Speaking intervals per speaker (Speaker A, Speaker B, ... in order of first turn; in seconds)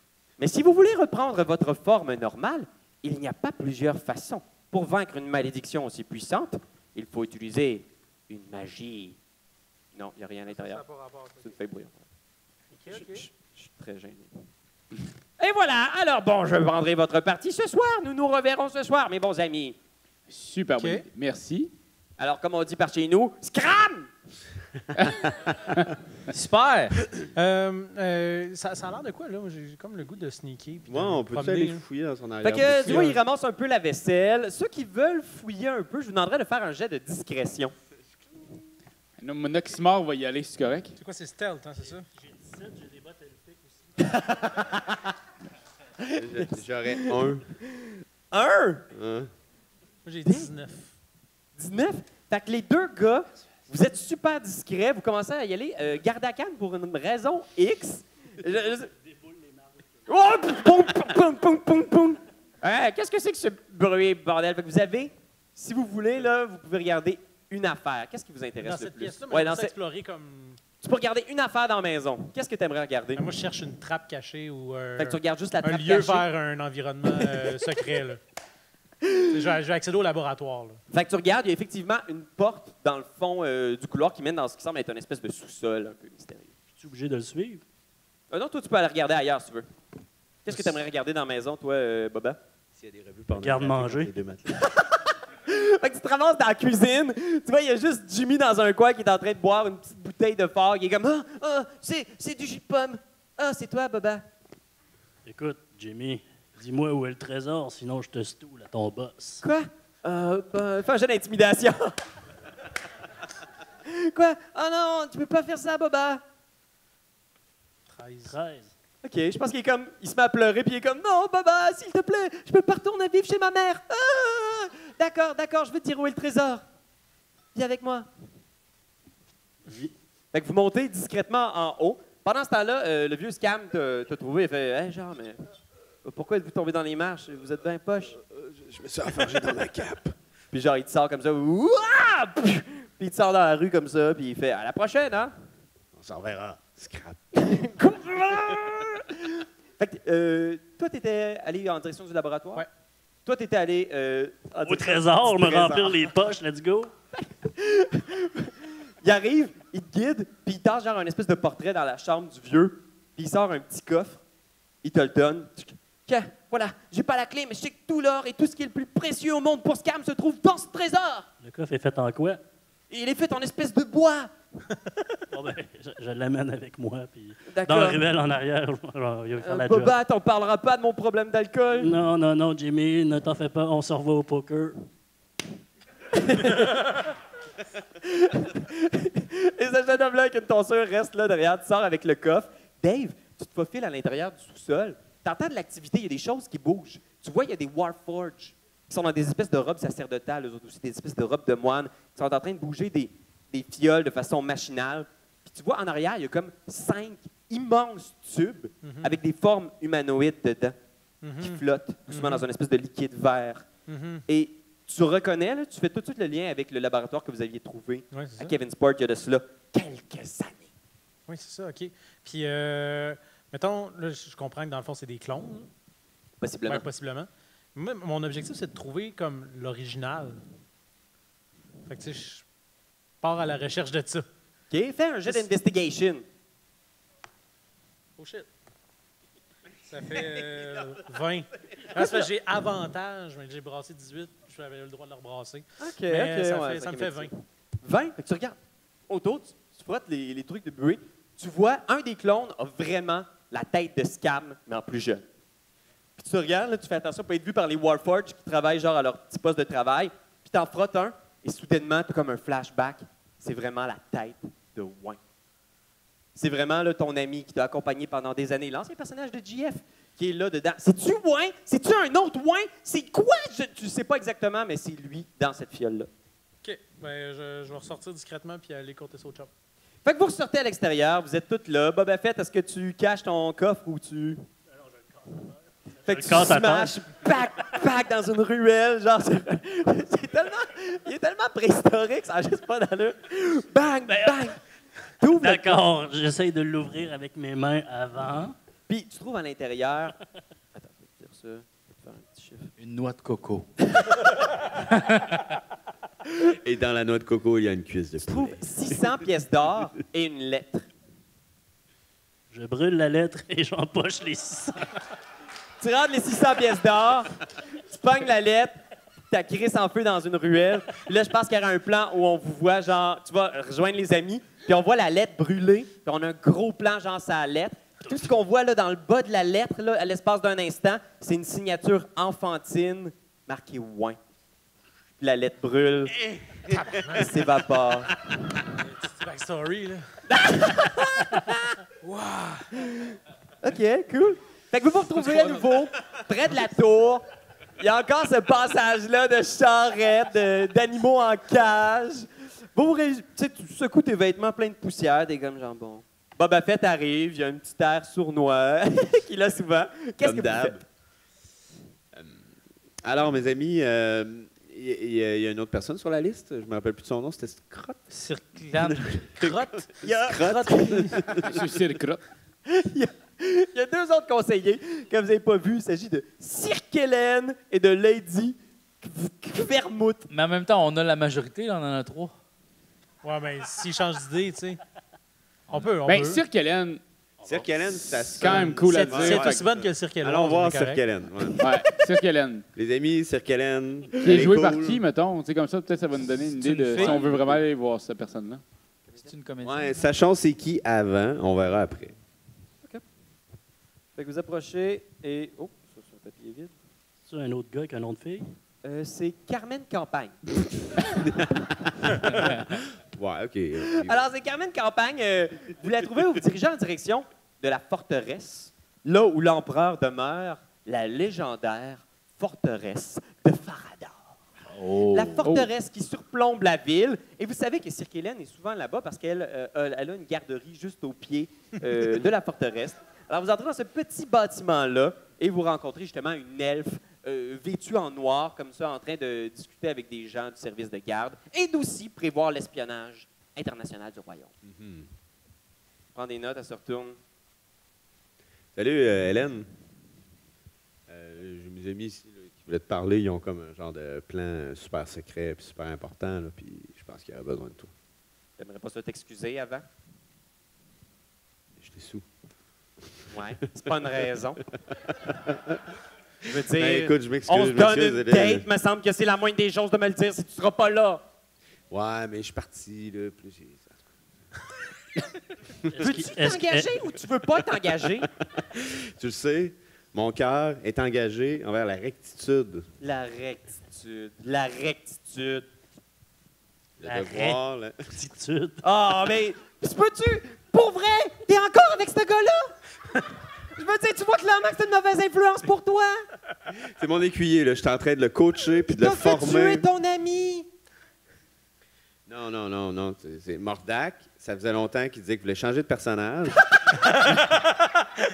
Speaker A: 0.4-9.2, 9.9-12.0, 12.9-14.3, 15.4-19.8, 22.2-24.1, 32.4-37.7, 44.0-45.1, 46.0-48.8, 51.6-58.9, 60.1-69.7, 70.8-73.3, 75.0-76.3, 79.0-79.5, 80.9-86.5, 88.3-89.7, 90.5-92.4, 94.5-104.2, 109.4-112.0, 113.8-116.2, 119.0-126.7, 127.5-128.1, 129.7-135.4, 136.0-138.2, 140.5-145.3, 147.4-152.7, 153.3-156.1, 157.2-164.2, 164.8-171.3, 172.9-174.3, 177.5-178.0, 179.4-181.9, 186.1-187.1, 188.0-210.8, 211.4-213.7, 214.3-220.7, 226.4-226.8, 234.7-236.2, 245.8-255.2, 256.2-265.2, 266.4-276.1, 280.1-284.4, 286.1-294.6, 295.2-295.8, 298.9-300.2, 300.8-302.7, 308.2-310.9, 315.8-318.8, 319.3-334.2, 335.2-336.2, 337.0-338.2, 340.3-341.8, 342.9-347.2, 347.8-360.8, 370.0-371.2, 372.7-380.2, 396.9-397.2, 399.1-399.3, 404.2-406.7, 408.8-410.4, 413.9-424.2, 425.1-444.5, 446.1-447.2, 458.6-459.9, 463.3-464.6, 466.5-471.2, 476.0-478.3, 483.0-485.7, 488.8-492.8, 493.8-496.2, 498.9-500.7
Speaker B: 12.8-13.3, 20.8-21.1, 27.3-31.8, 32.8-33.2, 41.0-42.1, 50.0-50.9, 68.6-70.6, 73.2-78.2, 79.3-80.8, 117.9-118.4, 208.8-209.2, 211.2-212.5, 213.9-214.2, 218.1-218.6, 221.3-225.7, 226.7-230.4, 231.9-232.5, 233.2-234.3, 235.3-235.5, 238.2-238.5, 239.9-247.3, 276.6-279.5, 337.0-337.2, 338.8-340.2, 342.0-342.9, 369.5-369.8, 370.7-371.2, 383.2-384.8, 385.7-386.4, 388.4-391.0, 507.1-507.7
Speaker C: 20.3-21.7, 24.9-25.9, 39.2-41.0, 371.4-372.2, 385.7-387.0, 388.3-389.6, 391.6-392.6, 394.2-398.6, 425.4-425.7
Speaker D: 26.3-27.0, 302.8-303.9, 304.9-305.4, 368.1-369.2, 380.3-382.3, 396.6-397.4, 399.2-400.1, 424.7-425.4
Speaker E: 30.9-33.1, 46.2-47.5, 48.9-49.3, 92.8-94.6, 138.2-140.2, 145.9-147.2, 306.4-309.0, 360.2-360.8, 362.1-362.4, 363.0-368.0, 368.8-371.5, 387.4-391.7, 392.8-395.0, 399.6-402.1, 411.1-414.3, 444.6-445.1, 448.8-449.7, 451.1-457.9, 461.8-462.3, 465.0-465.8, 466.7-468.7, 471.9-474.1, 478.7-482.9, 487.0-488.3, 496.8-499.9, 502.3-506.7
Speaker F: 42.2-43.9, 86.7-87.6, 93.3-94.1, 105.2-109.4, 118.3-118.7, 154.7-156.9, 171.4-172.4, 175.3-179.9, 181.8-184.9, 284.8-285.5, 286.1-287.0, 295.4-298.6, 312.5-314.9, 387.4-387.8, 407.3-408.5, 475.9-477.0, 487.0-487.6, 488.1-488.8